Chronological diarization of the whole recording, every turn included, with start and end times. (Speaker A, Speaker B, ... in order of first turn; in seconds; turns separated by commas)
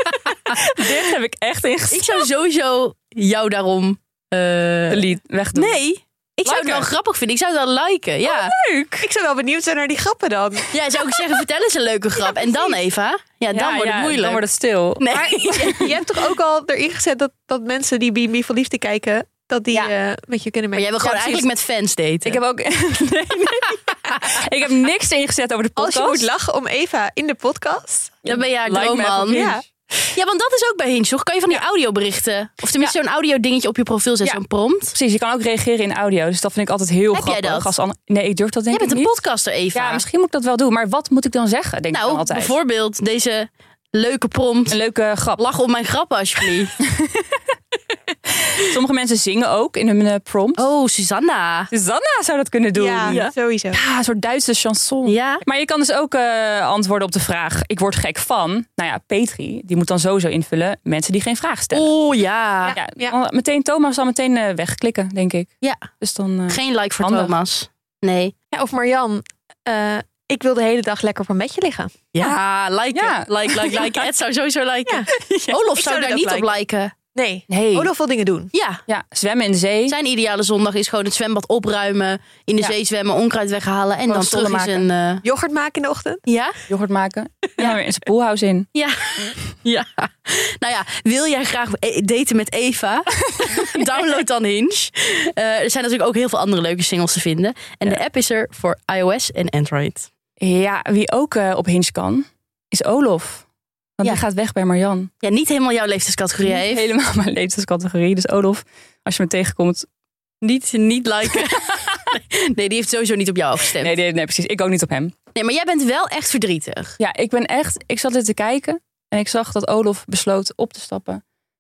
Speaker A: 0.5-2.2, Speaker B: 1.9-8.6, Speaker A: 4.9-5.8, Speaker A: 6.5-6.9, Speaker A: 8.2-9.1, Speaker C: 9.0-10.7, Speaker B: 10.7-14.4, Speaker A: 13.5-15.9, Speaker B: 15.0-15.9, Speaker C: 15.1-21.4, Speaker B: 20.7-22.4, Speaker A: 22.2-26.2, Speaker C: 25.8-28.2, Speaker B: 28.2-29.4, Speaker A: 28.3-29.6, Speaker C: 29.3-29.6, Speaker B: 30.1-34.9, Speaker A: 34.9-39.2, Speaker B: 37.1-37.7, Speaker B: 38.7-40.0, Speaker A: 39.7-42.5, Speaker B: 41.9-44.8, Speaker A: 44.7-45.4, Speaker B: 45.4-46.7, Speaker A: 46.9-47.3, Speaker A: 48.3-50.6, Speaker B: 50.6-51.7, Speaker A: 51.7-53.2, Speaker C: 52.7-53.8, Speaker B: 53.1-53.3, Speaker A: 53.7-61.9, Speaker B: 55.0-55.4, Speaker B: 61.7-62.8, Speaker C: 62.6-63.1, Speaker A: 62.8-67.3, Speaker B: 65.6-65.9, Speaker B: 66.5-68.3, Speaker C: 68.5-72.0, Speaker B: 72.1-76.9, Speaker A: 72.9-74.1, Speaker A: 75.1-75.5, Speaker C: 75.7-76.5, Speaker C: 77.1-78.5, Speaker A: 77.5-77.9, Speaker B: 78.5-78.8, Speaker A: 78.9-79.9, Speaker B: 79.9-85.2, Speaker A: 84.1-84.8, Speaker C: 85.2-86.2, Speaker B: 86.2-86.6, Speaker A: 86.7-88.7, Speaker B: 88.7-100.1, Speaker A: 93.4-93.8, Speaker A: 100.4-103.5, Speaker A: 104.0-105.1, Speaker B: 105.2-106.9, Speaker A: 106.4-109.9, Speaker B: 110.4-113.9, Speaker A: 113.8-115.1, Speaker B: 115.3-117.0, Speaker A: 117.0-121.2